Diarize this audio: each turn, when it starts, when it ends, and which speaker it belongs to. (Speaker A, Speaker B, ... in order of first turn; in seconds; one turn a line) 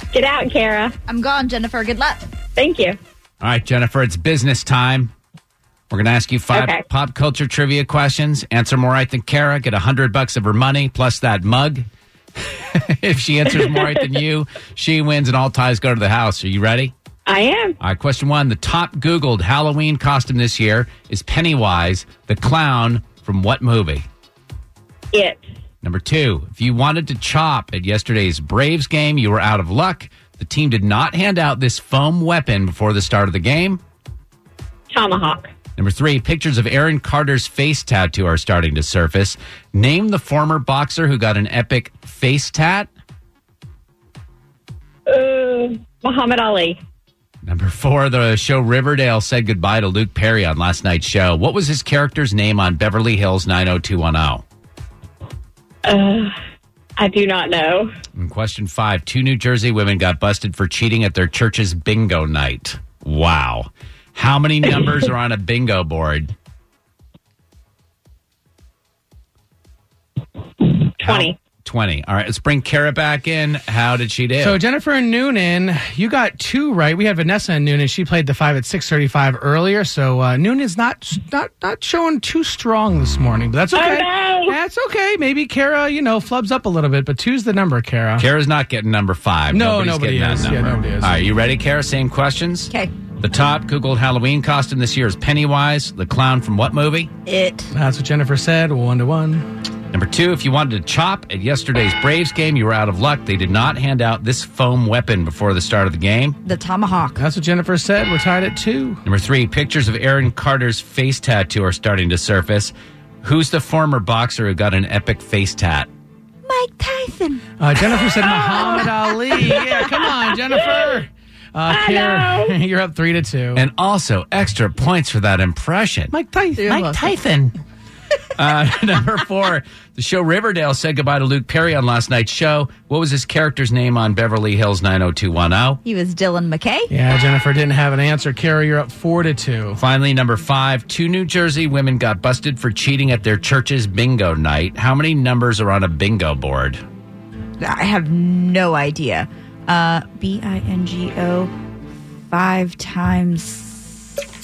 Speaker A: 0.1-0.9
Speaker B: 1.1-2.2
Speaker A: 2.5-3.0
Speaker C: 3.4-5.1
Speaker C: 5.9-11.8
Speaker A: 6.5-6.8
Speaker C: 12.4-16.9
Speaker A: 17.2-17.8
Speaker C: 17.8-24.1
Speaker A: 25.1-25.4
Speaker C: 25.8-33.8
Speaker A: 34.9-35.5
Speaker C: 35.8-42.9
Speaker A: 45.1-46.8
Speaker C: 47.4-54.4
Speaker A: 55.8-56.3
Speaker A: 57.0-57.9
Speaker C: 58.1-66.3
Speaker A: 70.6-71.4
Speaker C: 71.0-74.6
Speaker D: 74.4-88.3
Speaker A: 83.7-84.6
Speaker C: 88.2-97.1
Speaker D: 89.5-91.2
Speaker B: 97.2-97.7
Speaker D: 97.7-99.5
Speaker C: 99.9-106.4
Speaker B: 106.5-107.2
Speaker D: 107.2-109.0
Speaker C: 109.0-115.9
Speaker B: 116.5-117.4
Speaker D: 117.6-123.6
Speaker B: 118.6-118.8
Speaker A: 121.7-122.6
Speaker C: 123.5-126.1
Speaker D: 126.1-126.9
Speaker B: 126.6-127.1
Speaker C: 126.7-127.5
Speaker C: 128.4-135.8
Speaker B: 135.8-136.9
Speaker D: 136.9-139.8
Speaker C: 139.8-146.8
Speaker B: 147.6-151.5
Speaker B: 152.3-153.8